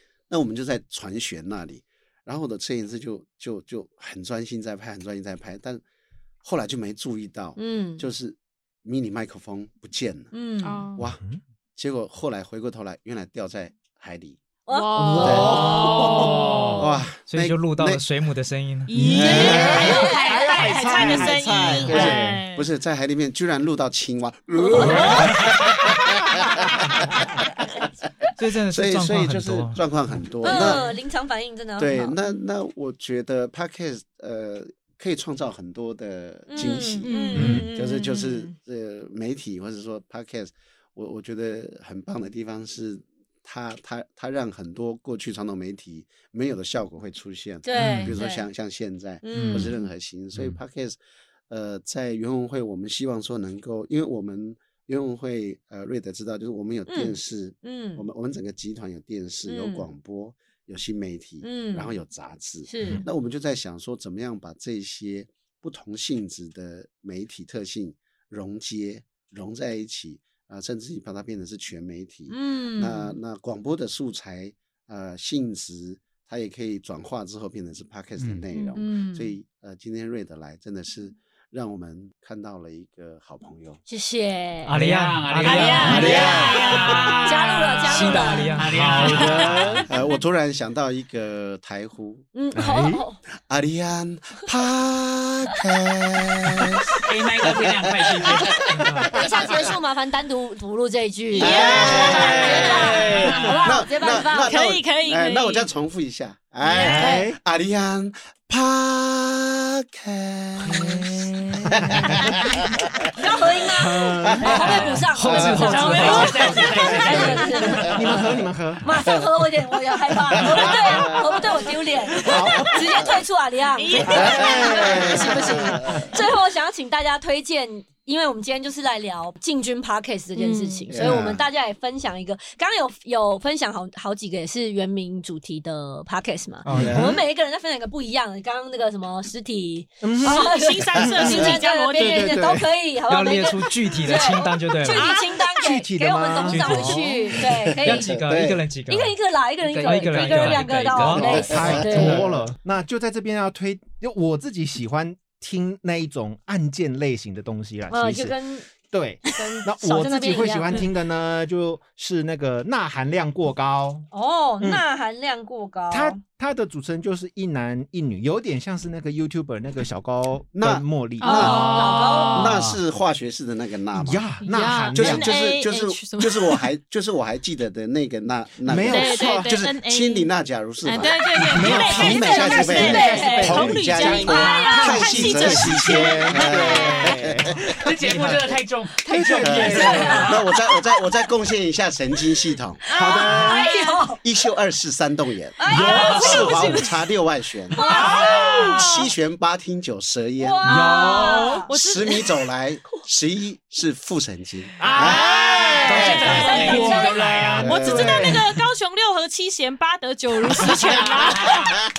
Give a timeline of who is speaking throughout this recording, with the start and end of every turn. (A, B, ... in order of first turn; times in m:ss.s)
0:00.3-0:05.8 A
0:06.4-0:10.3 A
0:07.6-0:08.1 B
0:10.3-0:10.8 B
0:10.6-0:11.1 C
0:10.9-0:11.2 A
0:11.8-0:14.4 A
0:14.6-0:16.3 B
0:14.7-0:16.9 C
0:15.0-0:16.1 D
0:15.2-0:18.0 A
0:17.2-0:18.9 E
0:18.9-0:22.7 C
0:18.9-0:22.4 D
0:19.1-0:20.0 A
0:19.2-0:20.7 B
0:21.0-0:21.3 A
0:21.8-0:27.2 A
0:24.6-0:25.3 B
0:24.8-0:25.2 C
0:28.4-0:29.8 E
0:28.7-0:30.9 A
0:30.4-0:32.2 B
0:30.4-0:30.9 C
0:31.8-0:51.0 A
0:36.5-0:38.5 B
0:37.0-0:37.6 C
0:37.4-0:37.7 D
0:47.6-0:48.5 B
0:47.8-0:48.1 F
0:49.2-0:49.8 B
0:49.3-0:49.7 F
0:50.3-0:50.6 F
0:51.5-1:23.8 A
0:56.9-0:58.1 B
0:59.4-0:59.9 B
1:01.4-1:02.0 B
1:02.6-1:03.0 B
1:12.3-1:13.2 B
1:18.5-1:18.8 C
1:18.7-1:19.3 B
1:23.9-1:24.8 B
1:24.6-1:26.0 E
1:24.7-1:29.9 F
1:25.4-1:29.7 C
1:25.5-1:26.5 B
1:25.8-1:27.0 A
1:27.2-1:29.2 B
1:27.9-1:29.6 E
1:29.2-1:32.3 A
1:32.3-1:33.2 B
1:32.5-1:33.0 D
1:33.4-1:36.9 A
1:37.0-1:38.6 F
1:37.4-1:39.7 A
1:38.7-1:39.1 E
1:39.1-1:44.6 B
1:41.3-1:43.5 C
1:41.4-1:53.0 A
1:41.8-1:43.3 F
1:44.3-1:45.6 C
1:46.8-1:47.1 C
1:46.8-1:47.4 D
1:46.8-1:47.2 B
1:50.7-1:52.4 D
1:53.2-1:58.2 B
1:53.8-1:55.0 D
1:54.2-1:58.0 A
1:54.6-1:54.9 F
1:55.1-1:56.4 E
1:55.5-1:58.0 C
1:55.9-1:57.9 F
1:56.4-1:58.9 D
1:58.8-2:28.2 B
2:00.3-2:02.8 A
2:02.1-2:03.1 D
2:03.7-2:05.4 C
2:04.0-2:06.1 D
2:04.0-2:06.1 A
2:10.3-2:10.9 C
2:10.9-2:11.5 A
2:16.6-2:17.1 E
2:16.7-2:17.1 D
2:16.7-2:17.2 A
2:20.0-2:20.5 D
2:20.2-2:22.4 C
2:21.0-2:21.5 A
2:22.0-2:22.7 D
2:23.0-2:25.2 E
2:24.8-2:25.5 C
2:25.6-2:27.3 D
2:26.4-2:27.2 E
2:27.3-2:28.6 A
2:27.8-2:29.2 E
2:28.9-2:32.2 B
2:29.6-2:31.8 F
2:29.8-2:32.4 E
2:31.1-2:32.2 A
2:31.3-2:44.1 D
2:37.9-2:38.7 B
2:39.3-2:40.9 B
2:44.1-2:46.2 B
2:45.9-2:51.7 D
2:50.5-2:54.3 A
2:51.2-2:52.6 C
2:51.3-2:52.6 B
2:52.4-2:52.8 F
2:53.9-2:55.3 D
2:54.4-2:56.7 C
2:54.9-3:08.5 A
2:58.6-2:59.5 D
2:58.8-3:00.3 C
3:00.8-3:07.0 C
3:01.4-3:08.4 D
3:01.7-3:03.5 B
3:06.8-3:07.1 B
3:07.8-3:10.5 F
3:09.1-3:10.3 D
3:09.4-3:12.8 A
3:09.9-3:10.3 B
3:12.8-3:14.2 B
3:12.9-3:13.6 D
3:13.3-3:13.9 C
3:14.2-3:20.7 A
3:15.6-3:16.9 B
3:15.7-3:16.6 D
3:16.0-3:16.4 F
3:17.7-3:18.8 B
3:17.8-3:19.1 C
3:17.9-3:18.5 D
3:20.4-3:21.7 B
3:20.6-3:21.7 D
3:20.8-3:22.4 C
3:21.7-3:26.8 A
3:24.8-3:27.7 F
3:24.9-3:28.6 D
3:24.9-3:31.8 C
3:25.8-3:27.3 B
3:27.5-3:28.3 A